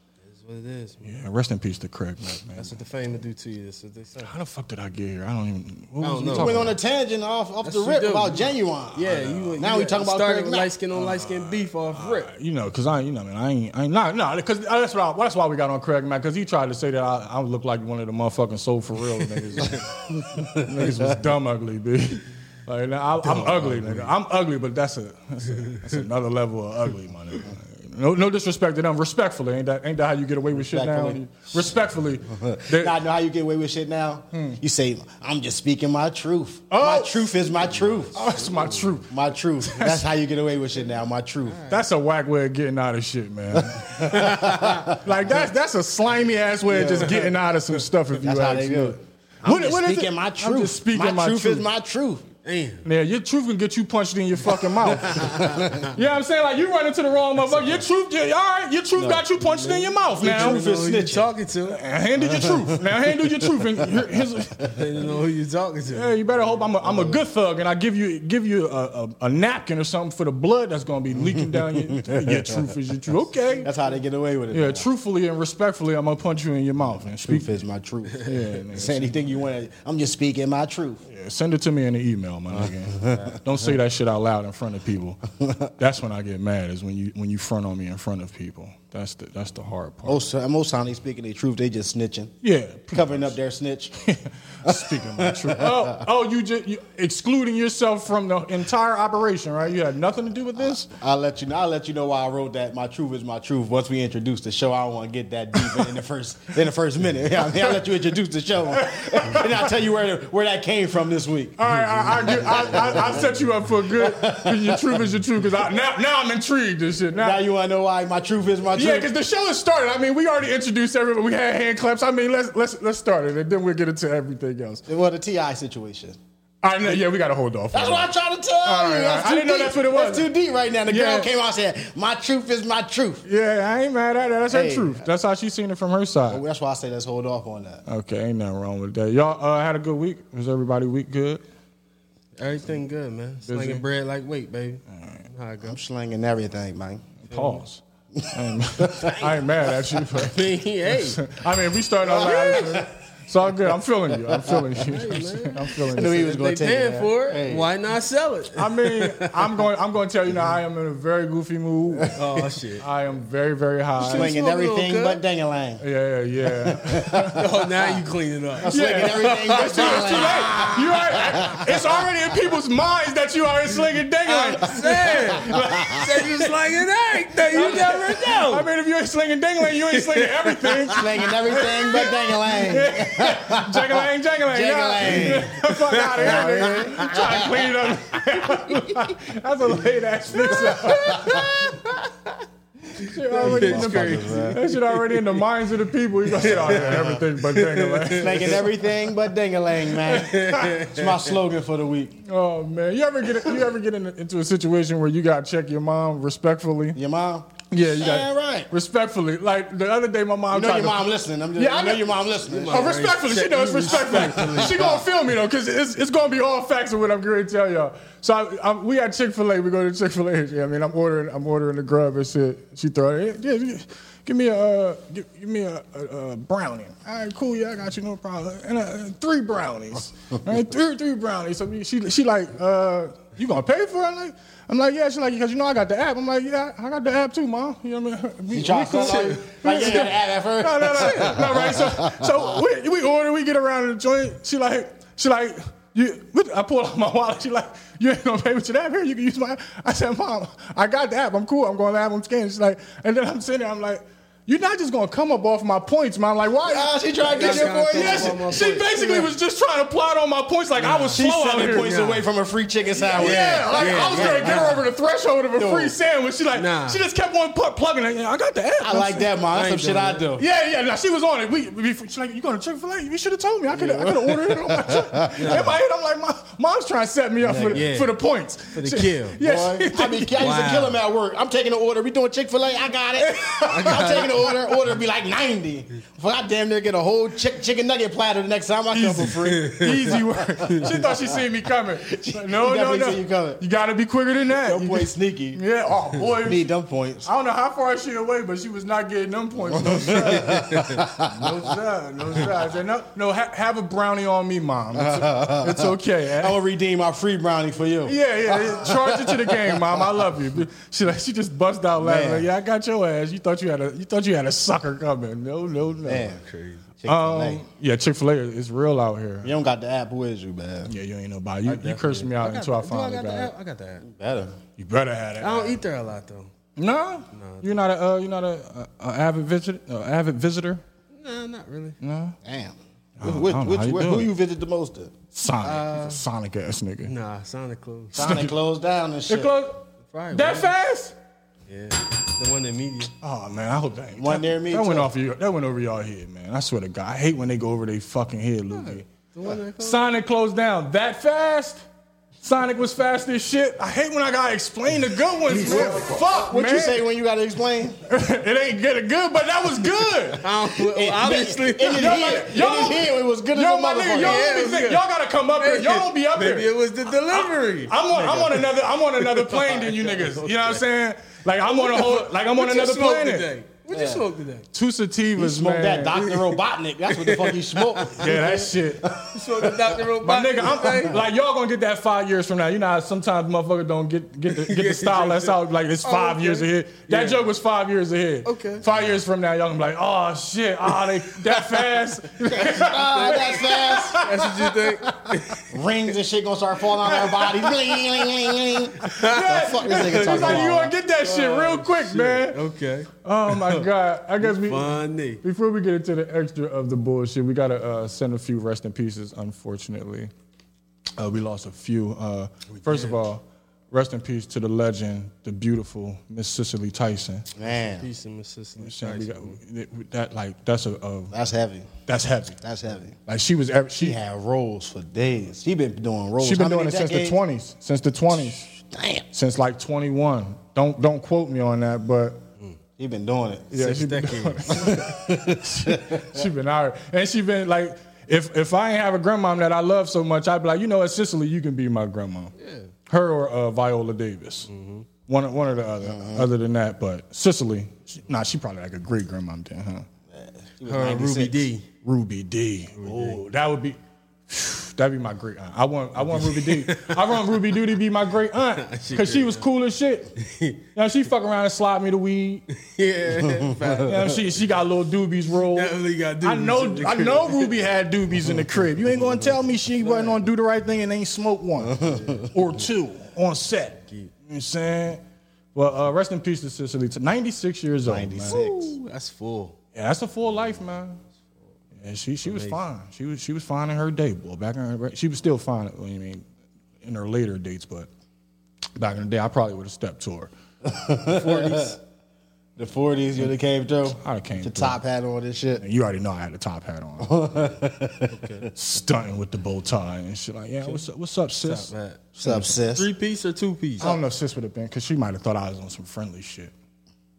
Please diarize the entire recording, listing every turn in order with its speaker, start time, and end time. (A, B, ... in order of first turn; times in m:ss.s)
0:00.2-0:01.2 A
0:01.0-0:02.8 B
0:02.6-0:04.3 A
0:04.2-0:06.8 B
0:06.0-0:06.7 A
0:06.3-0:10.7 C
0:07.6-0:12.3 A
0:09.0-0:09.6 B
0:10.9-0:33.0 B
0:20.5-0:20.9 C
0:23.3-0:23.9 A
0:23.3-0:24.0 C
0:30.5-0:31.2 C
0:32.2-0:38.2 C
0:34.3-0:34.6 B
0:36.7-0:37.3 B
0:37.8-0:39.0 A
0:38.1-0:39.1 B
0:39.1-0:41.6 C
0:39.6-0:40.0 B
0:41.4-0:41.8 A
0:41.7-0:51.6 B
0:43.5-0:45.0 C
0:46.7-0:47.3 C
0:48.2-0:52.2 C
0:52.4-0:52.8 A
0:52.8-1:00.6 B
0:54.9-0:55.8 A
0:55.1-0:55.9 C
0:59.0-0:59.2 C
0:59.4-1:01.8 A
1:00.2-1:01.3 C
1:01.7-1:04.8 B
1:02.2-1:04.0 C
1:04.6-1:06.2 A
1:05.9-1:13.7 B
1:06.8-1:07.2 C
1:11.1-1:12.7 C
1:13.6-1:14.8 C
1:14.5-1:17.5 B
1:16.8-1:21.0 C
1:18.2-1:19.2 B
1:21.1-1:25.2 B
1:22.5-1:23.4 C
1:25.8-1:30.3 B
1:30.0-1:32.3 C
1:32.4-1:33.3 B
1:32.9-1:34.0 C
1:34.0-1:40.9 B
1:34.6-1:36.0 C
1:40.9-1:53.4 C
1:48.8-1:49.6 B
1:51.6-1:57.4 B
1:53.9-1:55.0 C
1:57.1-1:59.1 C
1:58.8-2:04.8 B
2:04.9-2:06.2 C
2:06.6-2:08.1 B
2:07.7-2:13.2 C
2:08.6-2:10.3 B
2:10.9-2:11.3 B
2:13.2-2:16.4 B
2:14.5-2:15.1 C
2:16.3-2:17.8 C
2:17.9-2:21.4 B
2:22.4-2:25.8 A
2:23.4-2:23.8 B
2:24.9-2:25.3 B
2:25.6-2:27.1 C
2:27.2-2:36.3 B
2:27.3-2:27.6 A
2:28.2-2:29.2 C
2:30.1-2:31.2 A
2:32.1-2:32.8 A
2:32.1-2:32.9 C
2:34.3-2:34.7 C
2:34.8-2:39.6 A
2:35.9-2:37.7 C
2:38.6-2:42.1 B
2:42.0-2:42.3 C
2:42.1-2:42.8 A
2:42.8-2:44.3 B
2:44.0-2:45.2 A
2:44.0-2:45.8 C
2:45.8-2:47.4 B
2:46.4-2:47.4 C
2:47.3-2:50.8 A
2:48.6-2:51.9 C
2:48.6-2:56.5 B
2:54.2-2:58.7 A
2:55.5-2:56.0 C
2:57.4-3:11.9 B
2:59.6-3:01.0 A
3:00.9-3:05.6 C
3:05.6-3:07.0 A
3:06.1-3:08.0 C
3:10.4-3:11.5 C
3:10.6-3:12.4 A
3:13.0-3:18.7 B
3:13.0-3:15.4 A
3:13.3-3:14.6 C
3:16.4-3:18.6 A
3:16.4-3:17.2 C
3:18.1-3:22.2 C
3:20.0-3:20.8 B
3:20.1-3:21.1 A
3:22.2-3:27.0 B
3:26.9-3:28.7 C
3:27.7-4:22.0 B
3:30.5-3:33.0 C
3:32.5-3:34.9 A
3:33.9-3:35.0 C
3:58.5-4:02.4 C
3:58.9-4:00.0 A
4:16.6-4:18.4 C
4:17.3-4:19.3 A
4:20.8-4:22.2 A
4:21.1-4:24.8 C
4:23.0-4:24.8 A
4:23.1-4:29.3 B
4:25.6-4:25.9 C
4:26.5-4:27.0 A
4:28.8-4:30.4 C
4:29.5-4:30.2 A
4:30.4-4:40.4 B
4:33.7-4:35.8 C
4:35.4-4:35.8 A
4:37.4-4:37.8 C
4:37.7-4:38.1 A
4:38.7-4:39.4 A
4:39.4-4:51.1 C
4:39.9-4:41.0 A
4:43.2-4:44.8 A
4:48.9-4:56.7 B
4:49.4-4:51.0 A
4:52.1-4:53.6 C
4:54.5-4:55.6 C
4:56.3-4:57.3 C
4:57.2-5:06.6 B
4:59.7-5:01.7 C
5:00.4-5:01.0 A
5:04.9-5:10.3 C
5:08.0-5:16.4 B
5:12.0-5:12.5 C
5:16.0-5:16.4 C
5:16.3-5:16.9 A
5:17.0-5:17.6 C
5:17.0-5:19.5 B
5:19.4-5:20.9 C
5:20.9-5:23.5 B
5:21.6-5:24.0 A
5:24.0-5:24.6 C
5:24.8-5:25.8 B
5:25.4-5:26.5 A
5:26.8-5:30.8 B
5:27.3-5:27.8 A
5:31.1-5:32.0 A
5:32.0-5:32.4 B
5:32.4-5:35.1 C
5:33.2-5:34.3 B
5:35.3-5:37.1 B
5:35.6-5:36.2 A
5:37.0-5:38.3 A
5:38.1-5:39.5 C
5:38.2-5:38.5 B
5:39.3-5:41.1 B
5:40.0-5:40.7 A
5:41.7-5:43.1 A
5:43.2-5:49.1 B
5:44.2-5:45.1 C
5:48.7-5:50.0 A
5:49.8-5:51.8 B
5:52.4-5:57.0 B
5:55.5-5:58.0 C
5:58.1-6:00.4 B
6:00.4-6:04.6 C
6:00.4-6:02.4 A
6:01.9-6:13.5 B
6:04.1-6:10.8 A
6:11.6-6:14.7 A
6:13.9-6:14.2 C
6:14.7-6:16.2 B
6:15.4-6:19.7 C
6:16.2-6:18.3 A
6:18.1-6:19.2 B
6:19.3-6:21.2 A
6:20.2-6:35.6 B
6:24.5-6:27.4 A
6:28.4-6:28.8 A
6:31.5-6:31.8 A
6:32.5-6:34.3 C
6:32.5-6:35.6 A
6:35.7-6:40.9 C
6:37.0-6:42.6 B
6:39.0-6:43.8 A
6:43.2-6:50.3 B
6:44.4-6:45.4 A
6:51.2-6:57.5 B
6:52.7-6:53.2 A
6:57.5-6:58.1 C
6:57.6-6:59.6 A
6:58.8-7:01.3 B
7:01.3-7:01.9 C
7:02.1-7:02.6 B
7:02.6-7:03.2 C
7:03.3-7:04.2 B
7:04.0-7:07.4 C
7:06.4-7:08.7 B
7:08.7-7:09.2 C
7:09.3-7:12.4 B
7:13.0-7:13.7 C
7:13.7-7:22.5 B
7:13.7-7:15.0 A
7:14.8-7:16.4 C
7:22.6-7:22.9 A
7:23.1-7:24.7 B
7:24.7-7:25.1 A
7:25.2-7:30.0 B
7:26.0-7:26.5 C
7:30.3-7:31.7 C
7:30.8-7:31.8 A
7:32.0-7:34.0 B
7:33.0-7:33.4 A
7:34.5-7:40.3 B
7:36.2-7:37.6 A
7:38.8-7:39.6 A
7:40.4-7:40.8 A
7:40.9-7:42.6 B
7:42.7-7:44.5 A
7:43.5-7:43.8 C
7:44.0-7:55.2 B
7:45.7-7:47.7 A
7:49.1-7:50.4 A
7:51.9-7:52.4 C
7:52.0-7:52.5 A
7:55.7-7:58.6 B
7:58.0-7:58.9 C
7:58.5-7:59.8 A
7:59.9-8:01.2 B
8:02.0-8:06.4 B
8:02.4-8:02.8 A
8:07.0-8:08.1 B
8:09.0-8:10.5 B
8:10.8-8:12.0 C
8:11.2-8:12.0 A
8:12.8-8:15.8 C
8:14.1-8:15.0 B
8:15.8-8:17.6 B
8:17.2-8:18.4 C
8:18.3-8:18.7 A
8:18.7-8:21.9 B
8:21.6-8:24.1 A
8:22.4-8:23.1 C
8:24.0-8:26.7 B